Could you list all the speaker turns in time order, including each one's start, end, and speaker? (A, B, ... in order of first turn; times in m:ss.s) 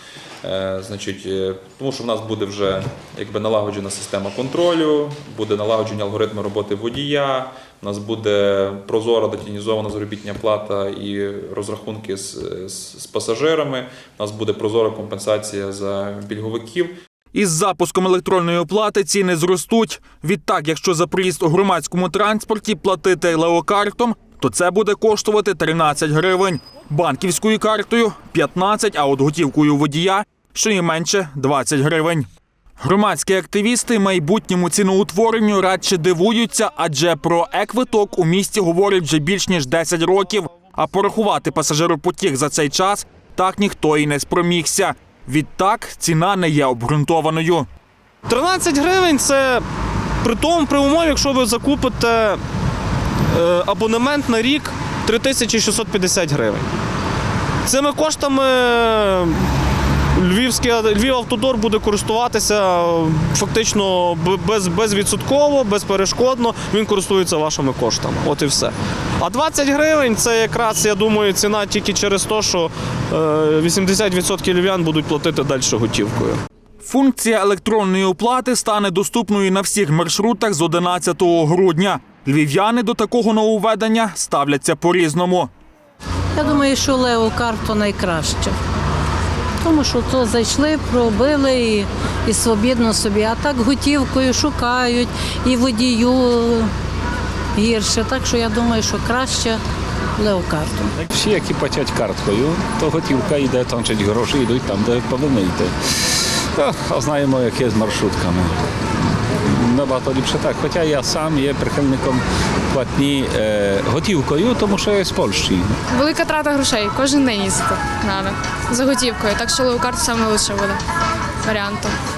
0:00.4-0:16.9 A
0:17.3-0:32.3 B
0:32.8-0:47.7 B
0:48.3-0:49.6 C
0:50.2-0:52.4 C
0:53.3-0:56.7 C
0:57.6-0:59.4 C
1:00.1-1:16.4 C
1:16.8-1:25.5 B
1:26.4-1:28.6 D
1:29.6-1:36.7 D
1:37.6-1:39.6 D
1:40.2-1:40.8 D
1:41.0-1:48.6 E
1:49.4-1:55.8 E
1:55.9-2:00.8 F
2:01.4-2:01.9 F